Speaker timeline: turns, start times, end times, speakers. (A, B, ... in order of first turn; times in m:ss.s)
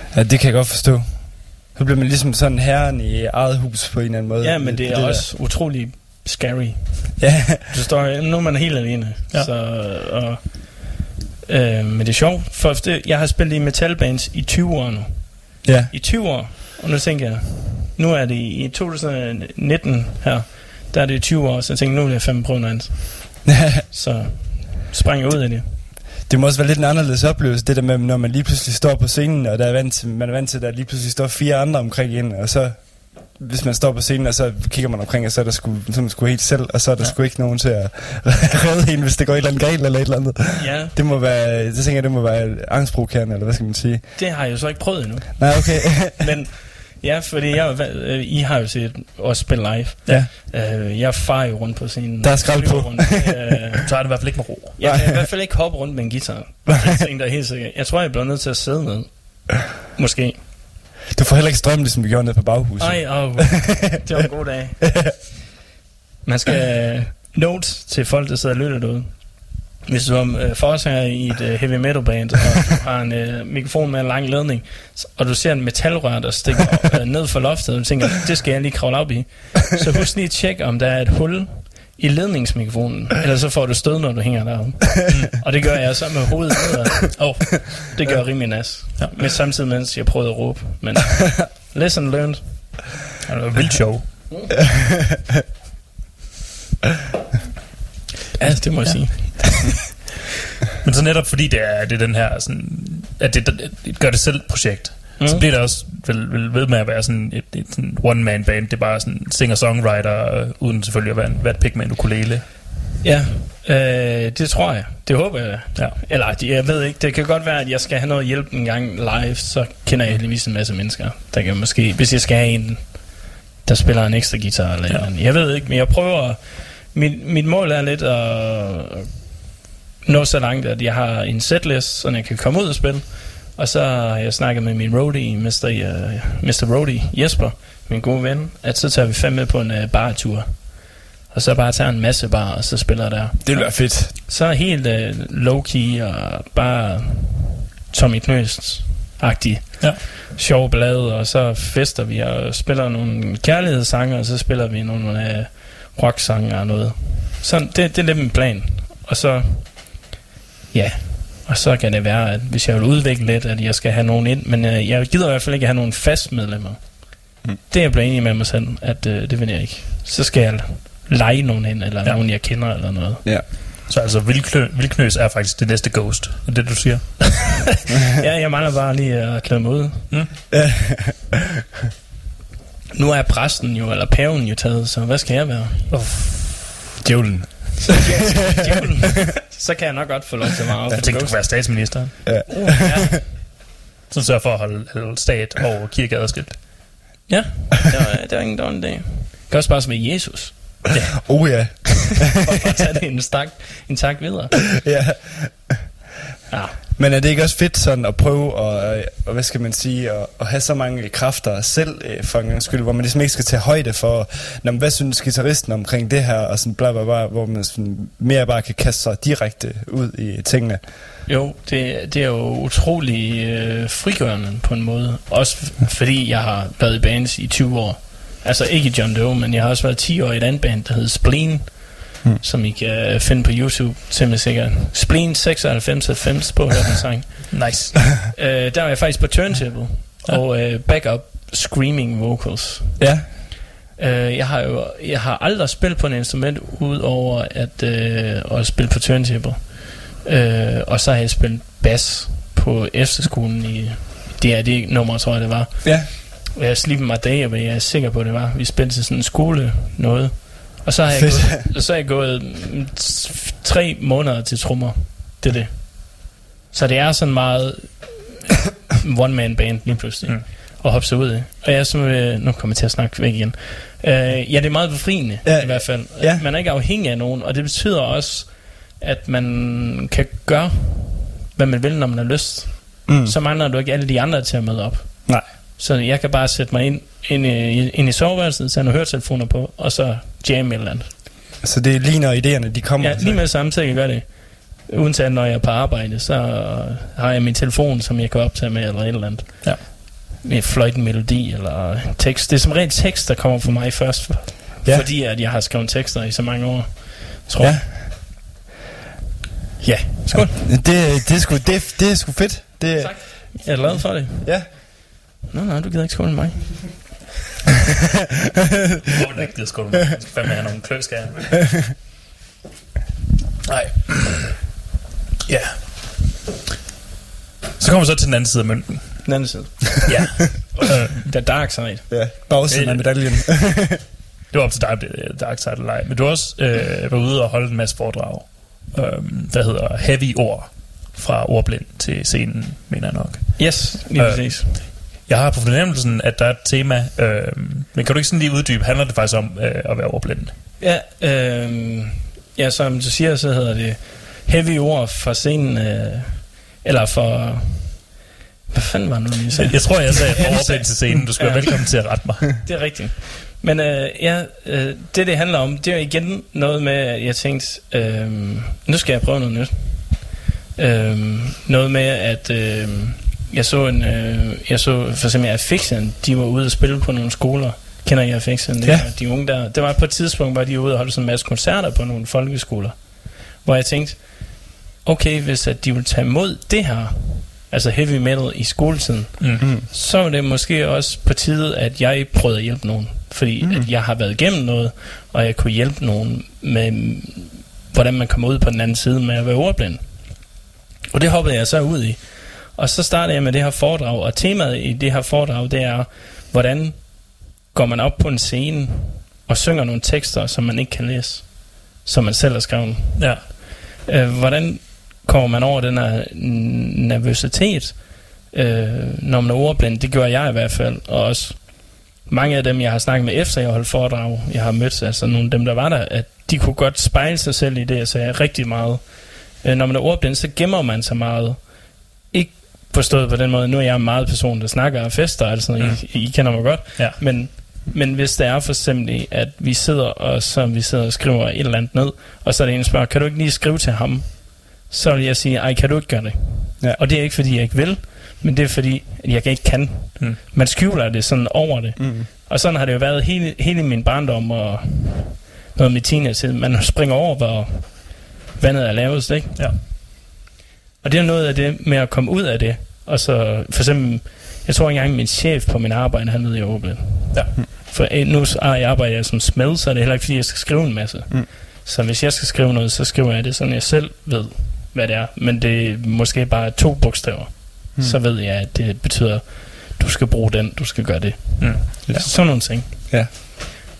0:00.1-0:05.3 A
0:04.4-0:25.8 B
0:07.2-0:07.6 A
0:15.6-0:15.9 A
0:23.5-0:23.8 A
0:26.3-0:44.2 A
0:40.6-0:40.9 B
0:44.2-0:54.1 B
0:45.4-0:46.2 A
0:52.2-0:53.1 A
0:53.8-0:54.7 C
0:54.8-1:00.4 B
0:54.8-0:55.3 A
1:01.1-1:04.2 A
1:02.8-1:05.2 B
1:06.2-1:32.9 B
1:25.1-1:25.9 C
1:27.2-1:28.1 C
1:33.2-1:34.3 C
1:38.4-1:39.6 B
1:38.4-1:39.6 C
1:40.8-1:52.6 C
1:45.2-1:45.4 B
1:53.0-2:09.1 B
2:10.0-2:40.1 B
2:23.4-2:24.1 A
2:40.7-2:53.2 B
2:53.9-2:57.6 C
2:58.2-3:00.2 B
3:00.5-3:01.3 A
3:02.9-3:05.9 B
3:05.9-3:06.8 C
3:07.0-3:07.9 A
3:07.9-3:11.7 B
3:11.0-3:17.0 C
3:12.2-3:13.0 A
3:12.5-3:12.9 B
3:17.3-3:21.0 B
3:20.9-3:21.5 C
3:21.3-3:22.8 A
3:22.4-3:24.7 B
3:24.8-3:25.9 A
3:26.5-3:26.8 B
3:27.0-3:41.0 A
3:41.3-3:57.8 B
3:57.5-3:58.1 C
3:58.3-4:03.1 B
4:03.0-4:03.3 A
4:04.0-4:28.4 B
4:15.8-4:16.1 A
4:21.1-4:21.6 A
4:29.0-4:51.1 B
4:35.4-4:36.4 A
4:43.1-4:43.4 A
4:51.6-4:53.4 A
4:53.0-5:07.8 B
5:07.6-5:08.1 A
5:09.8-5:10.8 B
5:10.3-5:14.7 A
5:12.9-5:14.9 B
5:15.5-5:17.1 B
5:19.1-5:21.8 C
5:23.7-5:24.7 C
5:25.5-5:26.2 C
5:27.8-5:29.5 C
5:29.2-5:30.2 B
5:30.0-5:31.3 C
5:31.0-5:32.2 B
5:32.1-5:34.0 A
5:32.7-5:33.7 C
5:34.5-5:50.6 C
5:43.6-5:44.7 B
5:50.8-5:58.2 B
5:58.7-6:40.5 B
5:59.6-6:02.6 C
6:18.8-6:19.1 A
6:33.6-6:33.9 A
6:41.1-7:39.7 B
6:53.2-6:53.5 C
7:15.8-7:17.2 C
7:32.0-7:32.3 A
7:41.0-8:03.5 B
8:01.6-8:02.3 C
8:02.1-8:03.3 A